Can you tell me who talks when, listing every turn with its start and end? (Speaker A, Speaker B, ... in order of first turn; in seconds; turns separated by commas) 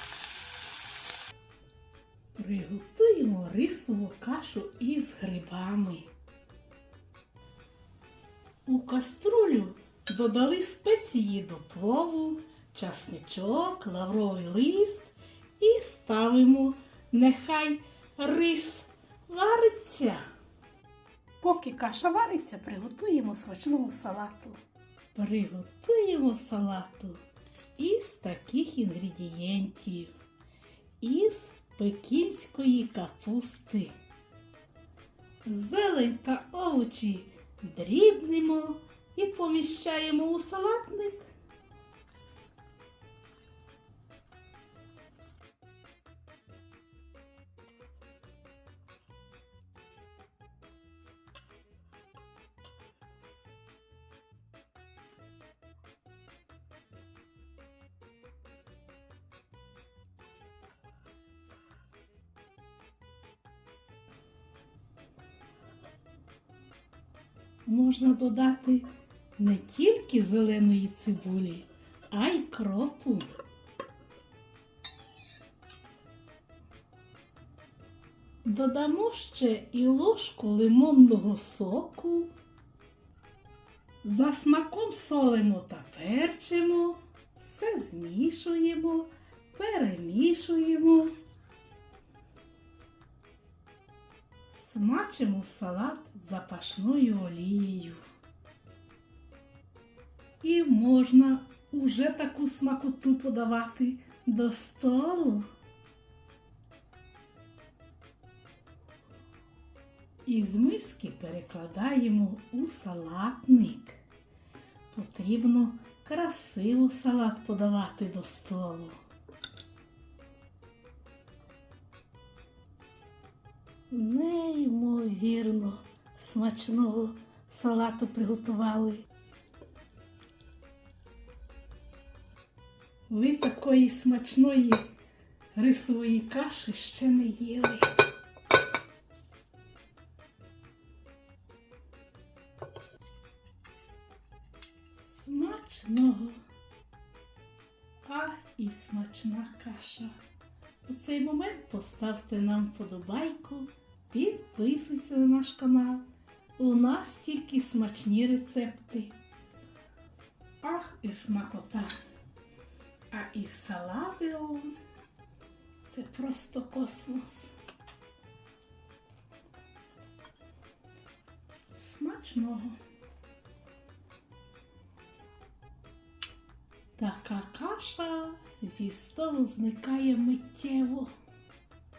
Speaker A: 2.4-6.1, Speaker A: 8.7-20.2, Speaker A: 21.4-24.6, Speaker A: 25.1-27.2, Speaker A: 27.8-30.1, Speaker A: 31.0-33.9, Speaker A: 35.5-41.3, Speaker A: 67.7-73.2, Speaker A: 78.4-82.3, Speaker A: 84.0-91.1, Speaker A: 94.5-98.0, Speaker A: 100.4-105.5, Speaker A: 110.2-114.0, Speaker A: 114.9-119.0, Speaker A: 123.9-129.1, Speaker A: 133.1-134.9, Speaker A: 135.5-137.9, Speaker A: 145.0-146.4, Speaker A: 148.0-150.1, Speaker A: 150.8-156.1, Speaker A: 156.6-159.2, Speaker A: 160.6-161.9, Speaker A: 163.1-164.7, Speaker A: 165.9-167.5, Speaker A: 171.7-172.8, Speaker A: 177.0-181.1